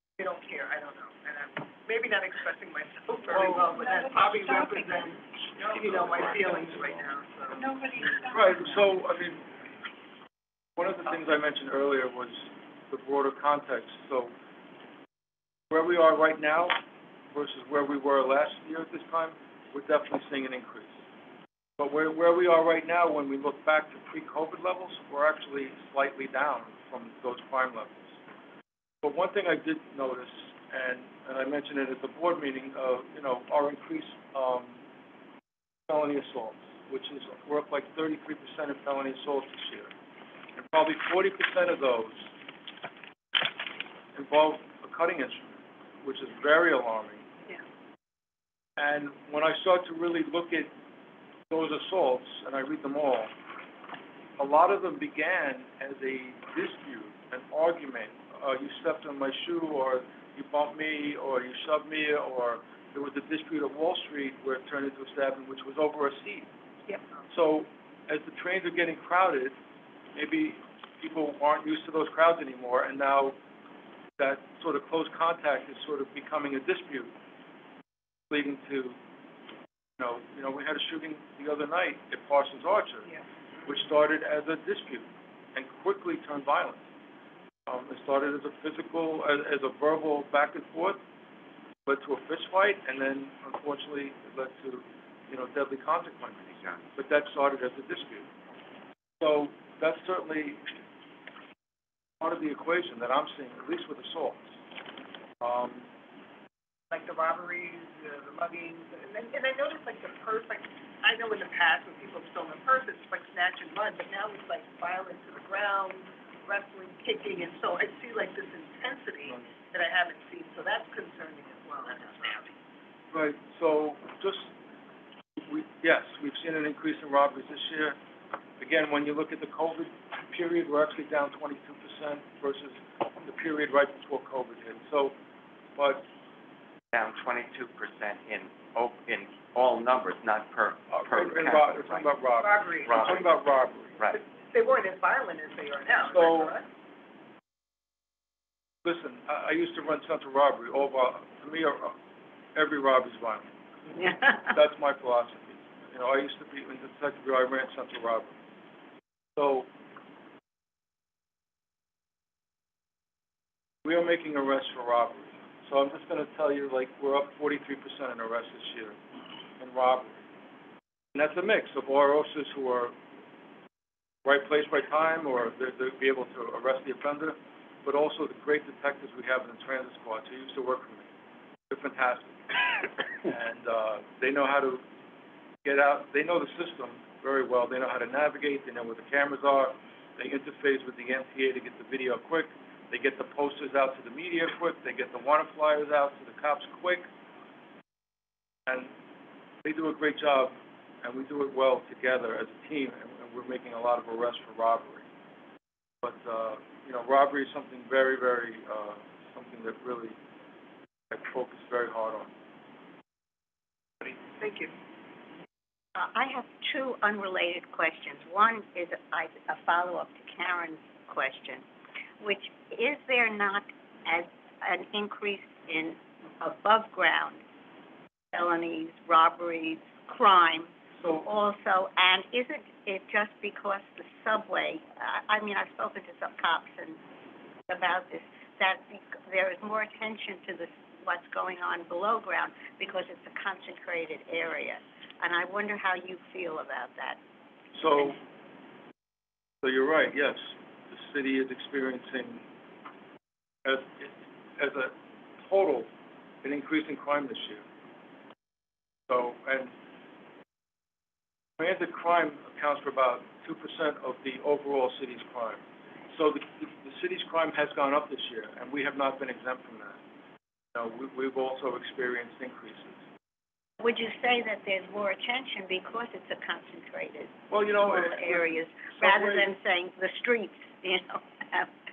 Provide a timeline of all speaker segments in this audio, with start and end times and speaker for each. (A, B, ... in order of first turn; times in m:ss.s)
0:00.2-0:07.6 A
0:03.2-0:06.9 B
0:05.9-0:06.4 C
0:07.5-0:09.0 B
0:08.1-0:09.4 C
0:10.8-0:14.3 C
0:15.7-0:16.8 C
0:17.3-0:21.0 C
0:21.8-0:28.2 C
0:29.0-0:34.8 C
0:35.9-0:39.9 C
0:40.6-0:42.3 C
0:44.2-0:47.3 C
0:48.8-0:50.7 C
0:51.5-0:53.3 C
0:54.4-1:06.5 C
1:07.3-1:09.6 C
1:10.1-1:13.4 C
1:14.2-1:17.1 C
1:18.3-1:19.0 C
1:20.0-1:23.1 C
1:23.6-1:26.8 C
1:27.7-1:31.0 C
1:31.9-1:38.3 C
1:36.4-1:36.9 D
1:39.2-1:40.6 C
1:42.2-1:44.4 C
1:45.4-1:45.9 C
1:46.9-2:02.5 A
2:03.1-2:04.5 C
2:05.4-2:08.0 C
2:08.6-2:15.2 C
2:15.8-2:16.1 C
2:16.9-2:22.1 D
2:20.9-2:24.0 C
2:22.4-2:23.5 A
2:22.8-2:23.3 D
2:24.1-2:26.7 A
2:25.9-2:26.5 C
2:28.8-2:32.0 C
2:32.6-2:33.5 C
2:34.5-2:38.4 C
2:39.4-2:39.7 C
2:43.8-2:49.0 C
2:49.6-2:50.2 C
2:51.2-2:53.0 C
2:54.2-3:01.1 C
3:01.7-3:02.4 C
3:03.2-3:04.8 C
3:05.6-3:17.1 C
3:18.7-3:18.9 C
3:19.6-3:25.1 C
3:26.0-3:30.2 C
3:31.1-3:32.3 C
3:34.0-3:34.7 A
3:36.0-3:41.6 E
3:42.2-3:47.4 E
3:48.3-3:57.0 E
3:51.0-3:51.2 C
3:57.7-4:07.2 E
4:07.7-4:08.2 C
4:09.6-4:12.5 C
4:13.6-4:15.9 C
4:16.4-4:17.6 C
4:19.1-4:19.7 C
4:21.6-4:30.0 C
4:30.8-4:33.0 C
4:33.8-4:41.7 E
4:37.5-4:39.5 C